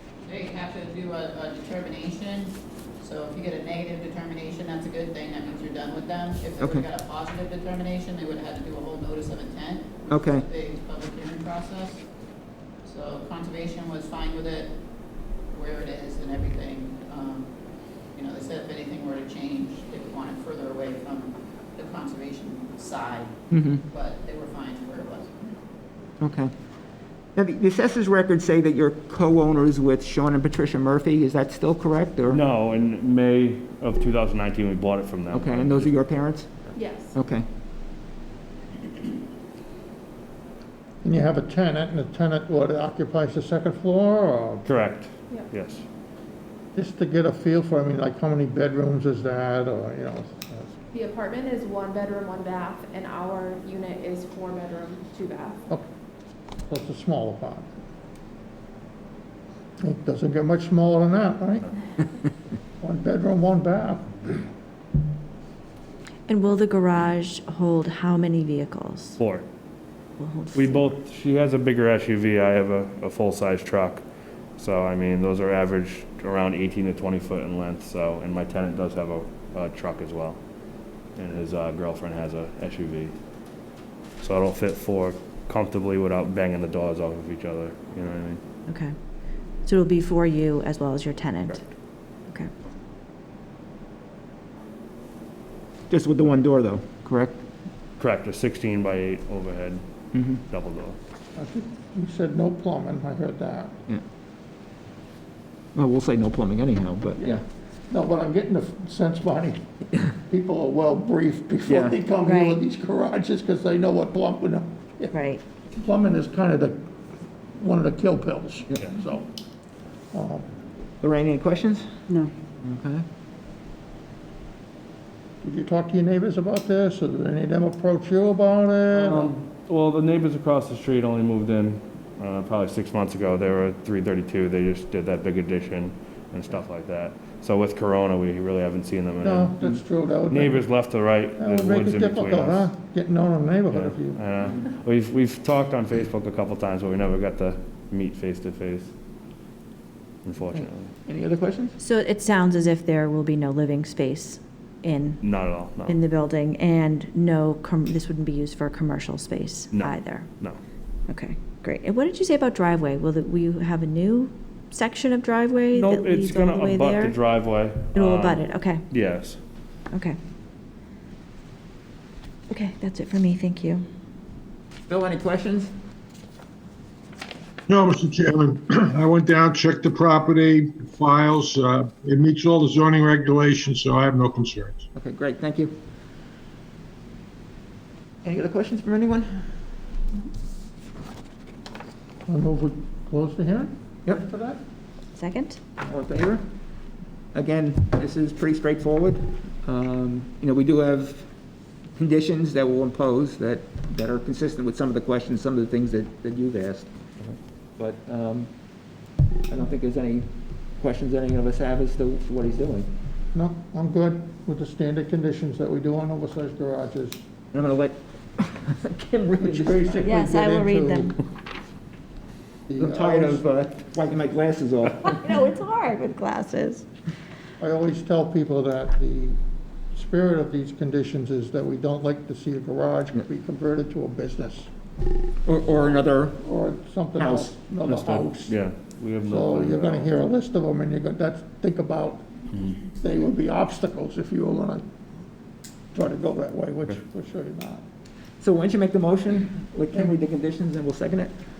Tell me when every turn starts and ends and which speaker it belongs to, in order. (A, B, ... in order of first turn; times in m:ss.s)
0:00.2-0:12.1 A
0:06.6-0:06.9 B
0:10.1-0:10.4 B
0:12.8-0:25.6 A
0:23.5-0:23.8 B
0:26.2-0:26.5 B
0:27.3-0:32.4 B
0:32.3-0:35.6 C
0:35.3-0:36.5 B
0:36.8-0:37.1 D
0:37.1-0:37.4 B
0:41.0-0:44.6 E
0:44.6-0:45.8 C
0:46.7-0:50.7 E
0:50.9-0:55.6 D
0:56.7-0:57.7 E
0:59.8-1:01.7 E
1:02.8-1:04.5 E
1:06.3-1:09.2 F
1:09.2-1:09.4 C
1:10.2-1:10.9 F
1:10.5-1:14.0 C
1:14.6-1:20.4 C
1:21.1-1:23.1 C
1:24.2-1:28.4 C
1:28.7-1:28.9 F
1:29.6-1:31.6 F
1:35.9-1:37.4 B
1:38.0-1:39.8 C
1:40.1-1:40.4 B
1:40.5-1:41.0 C
1:41.3-1:43.8 E
1:45.8-1:47.4 B
1:47.2-1:49.6 E
1:50.2-1:55.2 E
1:51.7-1:52.0 B
1:52.2-1:52.6 F
1:55.1-1:55.4 F
1:55.7-1:56.9 E
1:57.5-1:59.3 E
2:00.1-2:00.5 E
2:01.0-2:02.0 B
2:02.6-2:03.0 B
2:05.4-2:09.3 E
2:09.0-2:19.6 C
2:19.2-2:24.2 E
2:20.3-2:22.6 C
2:23.7-2:28.9 C
2:30.2-2:30.8 C
2:30.5-2:31.8 B
2:31.8-2:35.3 F
2:35.2-2:35.9 C
2:35.8-2:40.3 F
2:41.1-2:47.2 F
2:45.8-2:48.4 C
2:47.9-2:48.9 F
2:49.0-2:49.4 C
2:52.5-2:53.8 F
2:54.9-2:55.7 B
2:57.7-3:04.8 G
3:04.9-3:05.8 B
3:08.2-3:09.4 B
3:12.3-3:14.6 E
3:15.1-3:15.6 F
3:15.8-3:16.4 B
3:17.3-3:21.3 B
3:22.0-3:28.5 B
3:29.5-3:32.9 B
3:33.3-3:37.2 E
3:37.5-3:40.1 B
3:39.4-3:41.2 E
3:40.0-3:41.2 F
3:42.7-3:43.4 E
3:42.8-3:45.2 B
3:45.1-3:46.8 F
3:47.6-3:49.4 E
3:49.9-3:54.7 E
3:55.4-3:56.4 B
3:56.4-3:58.6 E
3:57.2-3:57.5 B
3:57.9-4:00.0 C
3:59.2-4:04.8 E
4:05.9-4:07.8 E
4:08.4-4:11.3 B